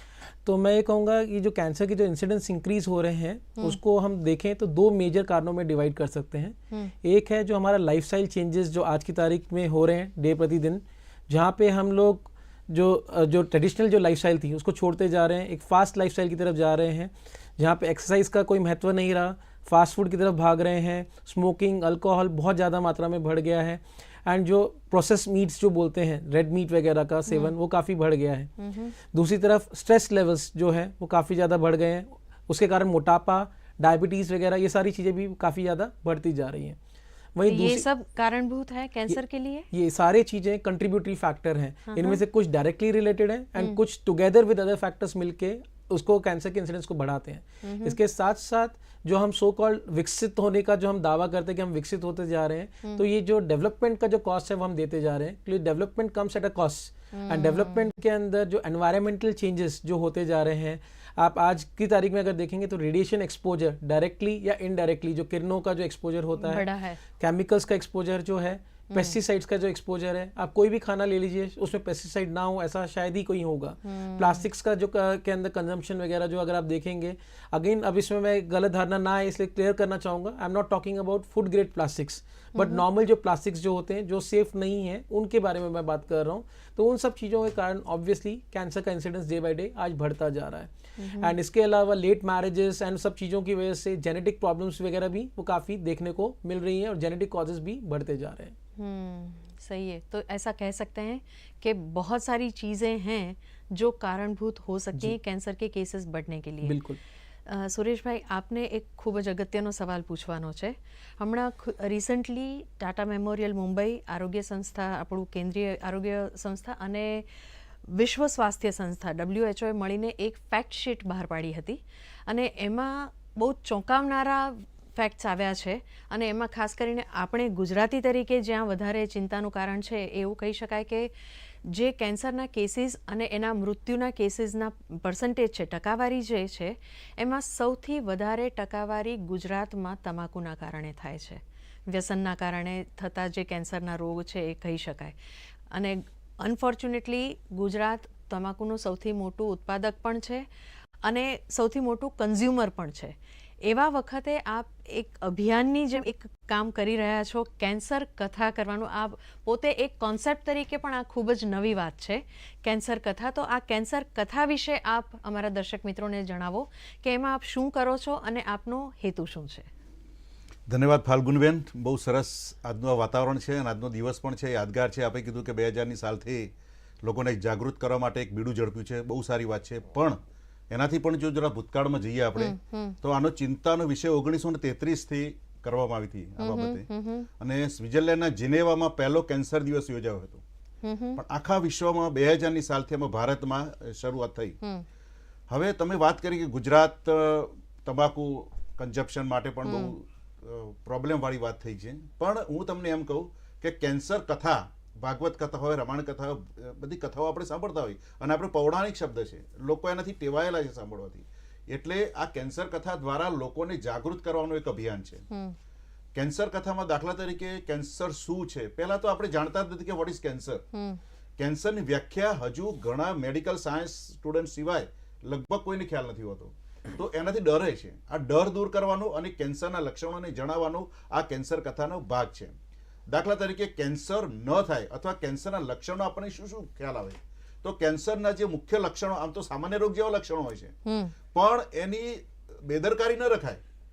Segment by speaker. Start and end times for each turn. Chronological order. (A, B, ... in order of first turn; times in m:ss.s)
0:00.4-0:28.5 A
0:27.3-0:27.5 B
0:28.6-0:28.9 B
0:29.1-0:36.8 A
0:37.4-0:37.8 A
0:37.5-0:39.7 B
0:39.7-1:06.6 A
0:41.9-0:42.2 B
0:47.6-0:48.0 B
0:57.1-0:57.9 B
1:06.4-1:07.0 B
1:07.2-1:38.6 A
1:08.9-1:09.2 B
1:13.8-1:14.5 B
1:22.6-1:22.8 B
1:31.0-1:31.4 B
1:38.8-1:46.8 B
1:46.6-1:47.0 A
1:47.5-1:57.3 B
1:57.9-2:11.1 B
2:11.6-2:25.2 B
2:25.7-2:30.5 B
2:31.0-2:49.7 B
2:50.7-2:56.5 C
2:57.0-3:00.2 C
3:00.7-3:06.9 C
3:02.4-3:03.0 B
3:06.4-3:07.3 B
3:07.4-3:10.4 C
3:10.8-3:11.2 B
3:11.2-3:14.6 C
3:15.5-3:35.2 C
3:19.6-3:19.9 B
3:35.3-3:35.6 B
3:36.2-3:40.6 C
3:40.7-3:41.0 B
3:41.4-3:52.6 C
3:53.1-4:00.7 C
4:00.9-4:01.2 B
4:01.3-4:03.6 C